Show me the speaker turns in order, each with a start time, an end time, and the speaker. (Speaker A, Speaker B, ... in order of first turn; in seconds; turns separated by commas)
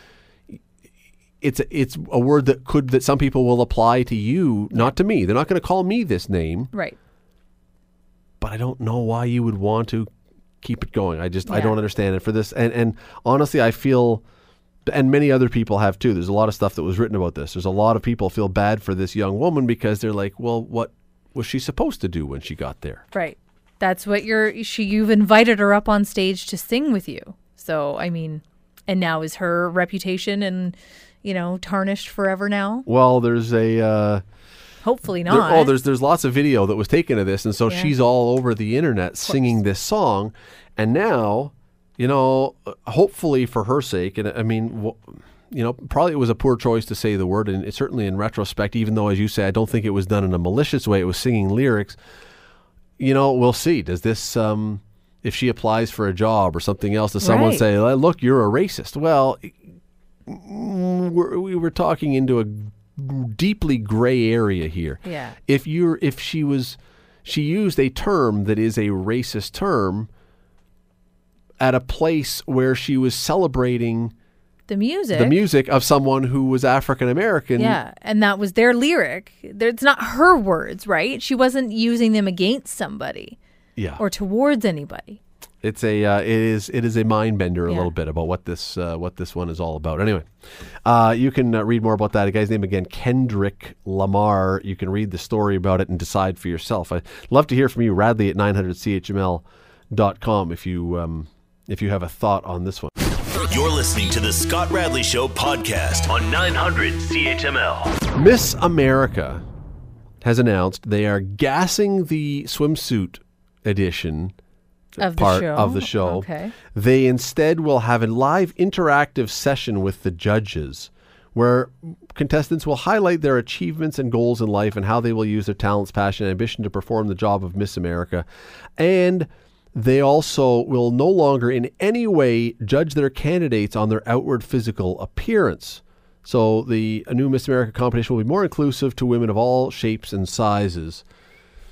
Speaker A: 1.4-6.7, Speaker B: 6.7-7.0, Speaker A: 8.4-10.1, Speaker A: 10.6-14.2, Speaker B: 11.5-11.8, Speaker A: 14.8-23.0, Speaker B: 23.1-32.9, Speaker A: 32.9-34.2, Speaker B: 34.8-35.7, Speaker A: 35.3-52.0, Speaker B: 39.2-39.6, Speaker A: 53.0-59.6, Speaker B: 57.2-57.6, Speaker A: 60.2-70.1, Speaker B: 65.0-65.3, Speaker A: 71.6-74.1, Speaker B: 74.7-75.4, Speaker A: 75.1-77.8, Speaker B: 77.6-83.4, Speaker A: 83.8-84.0, Speaker B: 84.0-85.2, Speaker A: 85.6-102.9, Speaker C: 103.5-108.1, Speaker A: 108.2-109.4, Speaker A: 110.2-114.3, Speaker A: 115.0-128.2, Speaker B: 115.0-116.5, Speaker A: 128.8-141.0